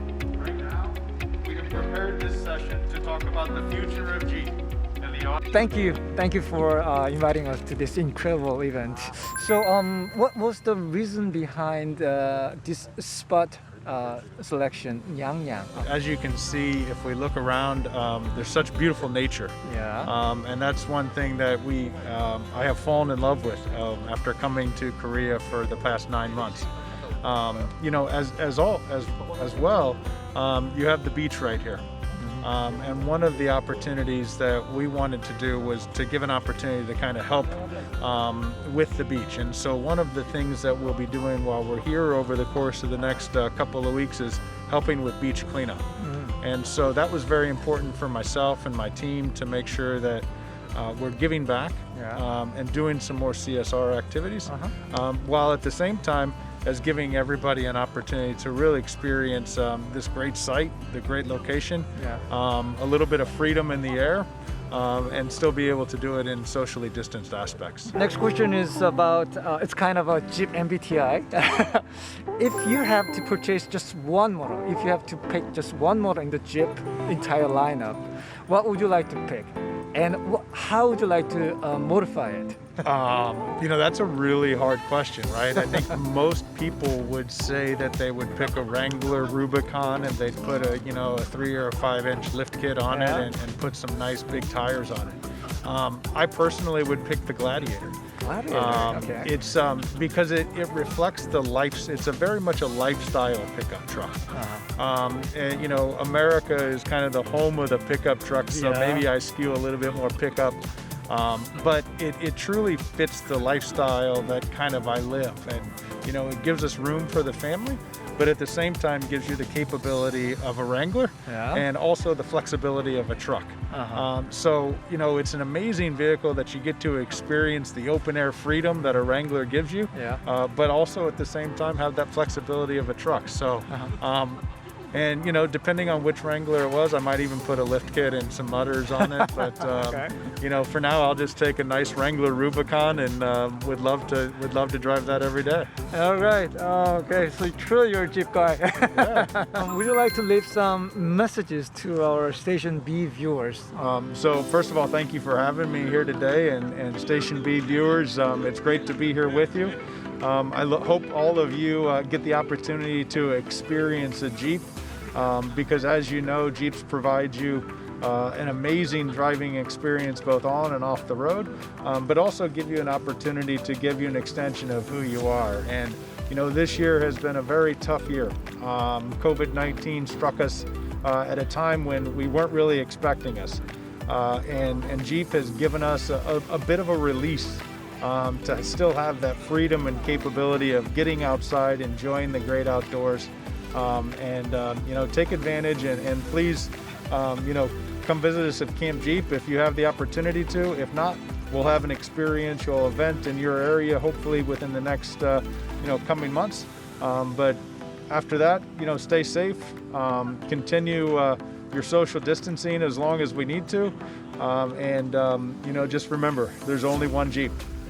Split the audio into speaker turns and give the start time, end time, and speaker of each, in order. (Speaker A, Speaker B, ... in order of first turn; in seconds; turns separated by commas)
Speaker A: 0.3-5.5, Speaker B: 5.5-15.9, Speaker A: 15.8-26.7, Speaker B: 19.6-20.1, Speaker A: 27.2-31.8, Speaker B: 32.2-32.5, Speaker A: 32.4-45.8, Speaker B: 46.0-46.4, Speaker A: 46.4-67.9, Speaker B: 51.9-52.2, Speaker B: 54.5-54.7, Speaker B: 67.9-82.7, Speaker A: 82.8-98.0, Speaker B: 92.9-93.3, Speaker B: 98.2-99.3, Speaker A: 98.5-104.2, Speaker B: 104.3-104.7, Speaker A: 104.8-145.7, Speaker B: 108.5-109.1, Speaker B: 121.3-121.7, Speaker B: 123.7-124.1, Speaker B: 129.9-130.2, Speaker B: 133.7-133.9, Speaker B: 139.0-140.2, Speaker B: 145.9-153.7, Speaker A: 148.9-149.3, Speaker A: 153.8-217.6